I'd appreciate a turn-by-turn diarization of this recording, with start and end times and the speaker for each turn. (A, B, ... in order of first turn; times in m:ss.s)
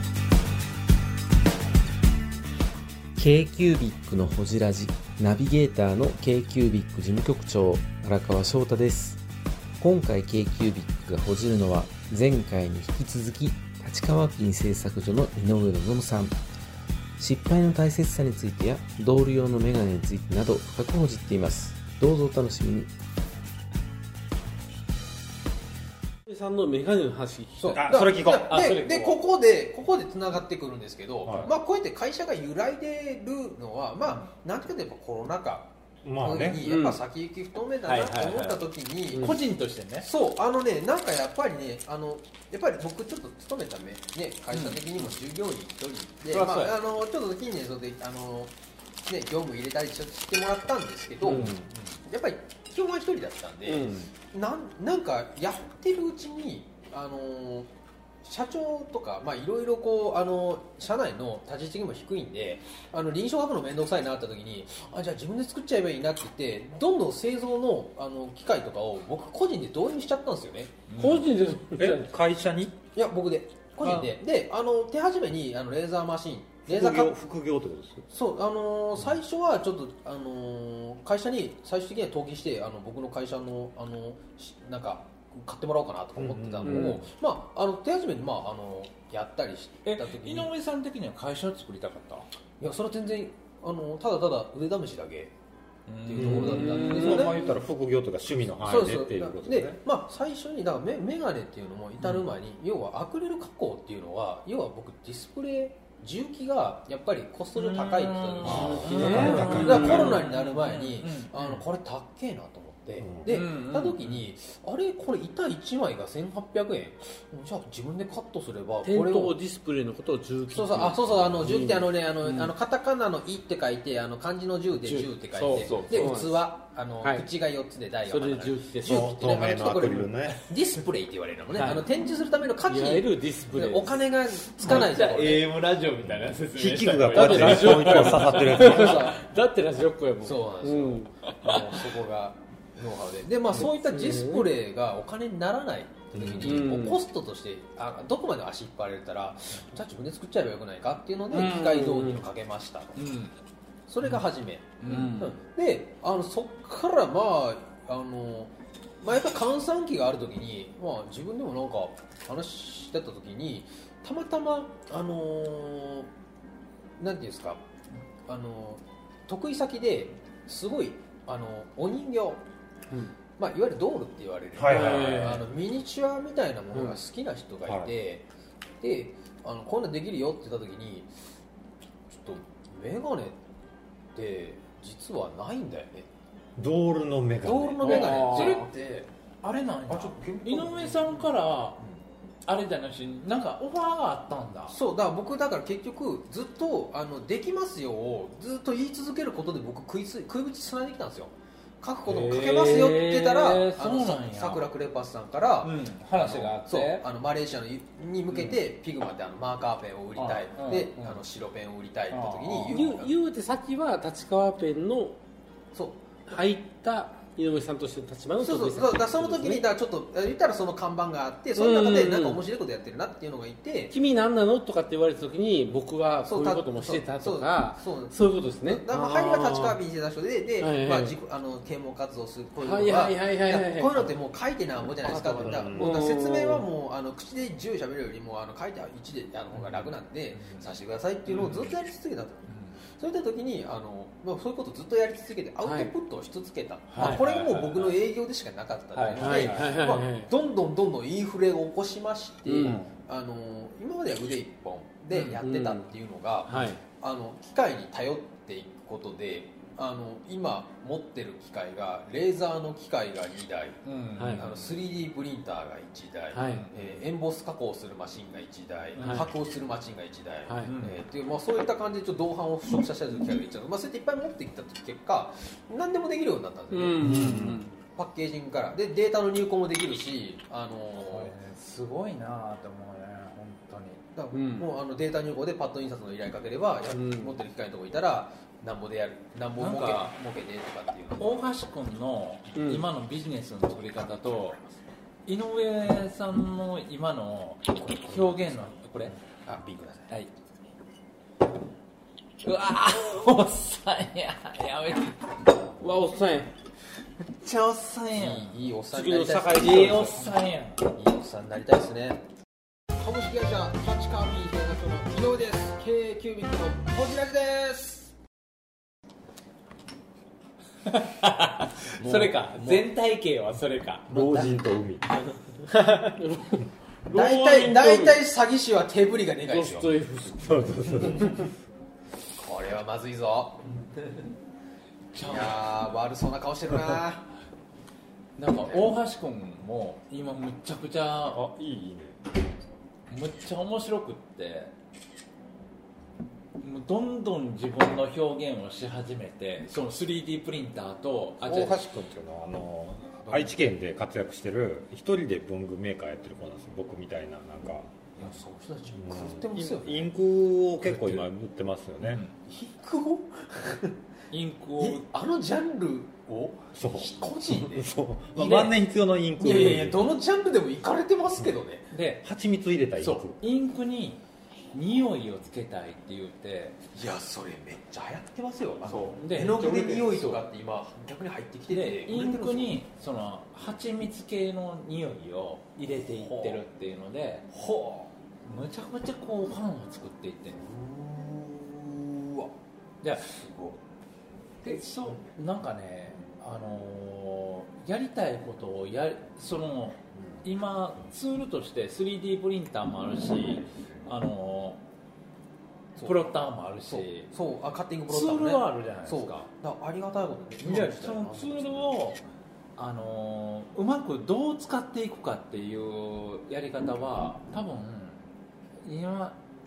0:03.2-0:09.2 A
0:09.8-0:16.4 A
0:17.2-0:22.9 A
0:26.2-0:27.8 B
0:27.5-0:39.3 C
0:27.7-0:28.7 D
0:28.5-0:29.2 E
0:31.2-0:31.5 D
0:36.0-0:36.6 D
0:36.6-0:37.0 B
0:37.8-0:38.6 E
0:39.1-0:40.1 E
0:40.0-0:48.5 C
0:44.5-0:45.1 E
0:46.3-0:46.8 E
0:49.0-0:57.7 C
0:51.3-0:51.6 E
0:51.3-0:51.6 D
0:53.6-0:54.1 B
0:58.2-1:10.7 C
1:10.9-1:11.3 E
1:11.0-1:12.1 B
1:11.8-1:12.8 D
1:12.9-1:17.2 C
1:16.7-1:18.0 D
1:18.1-1:30.5 C
1:26.2-1:27.0 D
1:26.6-1:27.0 B
1:29.8-1:32.3 E
1:32.6-1:35.3 C
1:35.9-1:36.9 E
1:36.0-1:37.4 C
1:36.2-1:39.8 D
1:36.4-1:37.2 B
1:38.6-1:59.4 C
1:42.0-1:42.3 E
1:47.5-1:51.6 E
1:48.4-1:50.2 D
1:48.8-1:50.0 B
1:53.0-1:53.4 D
1:53.2-1:54.2 E
1:58.8-2:02.5 B
2:00.5-2:15.4 C
2:04.8-2:06.4 B
2:05.4-2:06.1 E
2:07.0-2:07.3 B
2:08.1-2:09.1 B
2:08.8-2:10.4 D
2:11.5-2:11.9 B
2:12.6-2:14.0 B
2:14.6-2:18.8 E
2:16.0-2:19.1 D
2:17.1-2:21.1 B
2:18.6-2:19.2 C
2:20.2-2:33.1 C
2:23.5-2:24.5 B
2:26.1-2:26.6 D
2:26.4-2:27.0 B
2:31.3-2:32.2 B
2:33.0-2:33.3 E
2:33.9-2:46.1 C
2:34.8-2:35.3 E
2:34.8-2:35.3 B
2:47.0-2:47.6 C
2:48.3-2:52.4 C
2:53.4-2:58.3 C
2:54.5-2:55.4 D
2:54.7-2:55.4 B
2:57.6-2:57.9 D
2:58.8-3:01.1 C
3:02.1-3:03.4 C
3:04.1-3:06.1 C
3:06.6-3:08.0 D
3:07.4-3:09.1 C
3:07.8-3:08.7 E
3:07.8-3:08.6 B
3:09.4-3:11.8 E
3:09.9-3:11.3 C
3:12.4-3:14.7 E
3:14.7-3:33.1 C
3:22.0-3:24.7 E
3:25.6-3:27.1 E
3:28.3-3:28.6 E
3:30.2-3:31.2 E
3:32.1-3:32.8 E
3:32.7-3:35.2 B
3:35.7-3:36.1 C
3:36.3-3:39.7 B
3:38.4-3:43.9 C
3:41.6-3:42.4 B
3:43.9-3:49.8 B
3:46.2-4:23.8 C
3:50.6-3:51.2 B
3:52.6-3:54.1 B
3:55.0-3:56.6 B
3:55.4-3:56.0 D
3:59.5-4:00.7 E
4:01.3-4:01.7 E
4:02.5-4:02.8 E
4:05.6-4:05.9 B
4:06.9-4:08.0 E
4:07.0-4:07.2 B
4:08.9-4:09.7 E
4:09.1-4:10.3 B
4:12.4-4:12.8 B
4:12.6-4:12.9 E
4:15.4-4:15.9 B
4:16.5-4:16.8 B
4:23.8-4:24.7 E
4:24.2-4:24.4 B
4:24.3-4:37.0 C
4:26.3-4:26.7 B
4:26.4-4:26.8 E
4:28.9-4:29.3 E
4:29.0-4:29.3 B
4:30.5-4:30.7 B
4:30.6-4:31.0 E
4:36.7-4:37.7 B
4:37.0-4:37.6 D
4:37.9-4:41.3 C
4:40.9-4:44.0 E
4:44.1-4:51.4 C
4:44.3-4:44.7 B
4:46.9-4:47.3 B
4:49.6-4:50.1 E
4:51.2-4:54.6 E
4:52.6-4:52.8 B
4:55.2-4:59.2 E
4:57.7-4:58.8 C
4:59.3-5:00.1 C
5:02.4-5:05.3 E
5:05.8-5:06.5 B
5:07.4-5:08.5 E
5:08.1-5:10.3 C
5:08.9-5:10.1 B
5:09.3-5:10.8 E
5:10.9-5:12.2 C
5:13.0-5:18.1 C
5:20.8-5:24.5 E
5:22.0-5:22.9 C
5:24.1-5:25.0 D
5:25.7-5:28.2 B
5:27.1-5:30.0 C
5:29.5-5:31.3 B
5:30.3-5:31.5 D
5:32.4-5:34.2 C
5:35.1-5:35.7 E
5:35.2-5:37.3 C
5:38.4-5:41.4 E
5:41.3-5:42.2 D
5:43.1-5:44.7 E
5:46.6-5:52.0 E
5:51.4-5:58.1 D
5:58.2-6:00.1 C
5:58.9-6:02.2 D
6:00.8-6:01.3 E
6:02.0-6:02.3 E
6:02.4-6:04.0 C
6:04.3-6:05.1 E
6:04.8-6:07.9 C
6:06.7-6:10.1 D
6:08.4-6:08.7 E
6:09.4-6:11.8 C
6:11.9-6:12.3 E
6:12.2-6:13.4 D
6:13.0-6:14.2 E
6:14.7-6:16.8 E
6:16.9-6:22.8 C
6:18.9-6:20.4 E
6:21.7-6:27.5 E
6:26.0-6:26.6 C
6:27.5-6:28.1 C
6:28.4-6:30.6 E
6:30.5-6:32.5 C
6:33.0-6:33.4 E
6:33.3-6:33.8 C
6:34.6-6:44.8 E
6:34.6-6:35.2 C
6:46.0-6:46.3 C
6:46.0-6:47.3 E
6:46.8-6:52.0 C
6:48.1-6:49.5 E
6:50.6-6:52.2 E
6:52.8-6:58.3 E
6:58.8-6:59.4 E